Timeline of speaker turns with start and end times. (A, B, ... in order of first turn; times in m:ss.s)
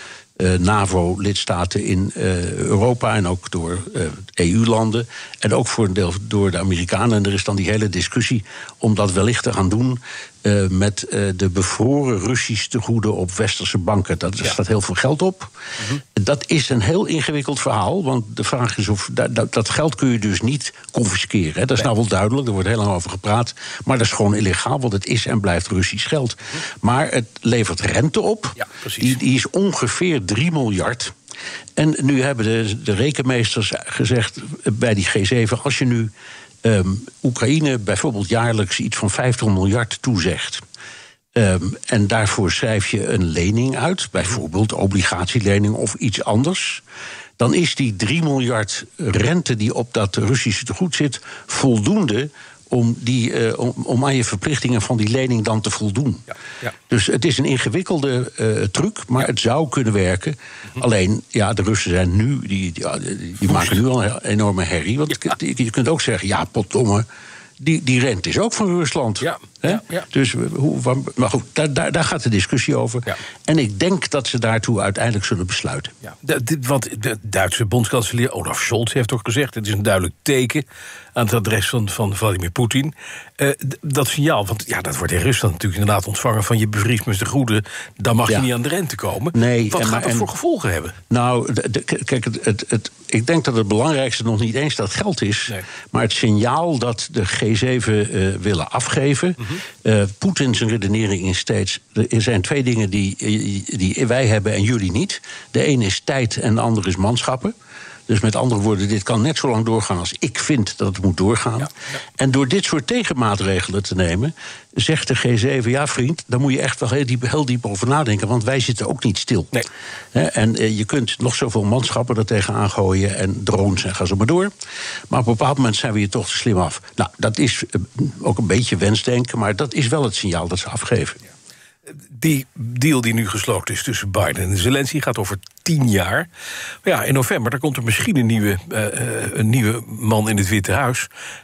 0:00.4-0:31.1 A
0:28.7-0:29.0 B
0:31.8-0:36.1 A
0:36.6-0:40.6 A
0:41.3-0:46.8 A
0:47.4-0:56.2 A
0:56.9-1:07.0 A
1:07.6-1:15.9 A
1:09.2-1:10.0 B
1:16.1-1:31.0 B
1:29.3-1:30.3 A
1:31.1-1:47.5 A
1:48.1-1:59.5 A
2:00.1-2:04.5 A
2:05.1-2:11.2 A
2:12.1-2:16.3 B
2:16.8-2:21.1 B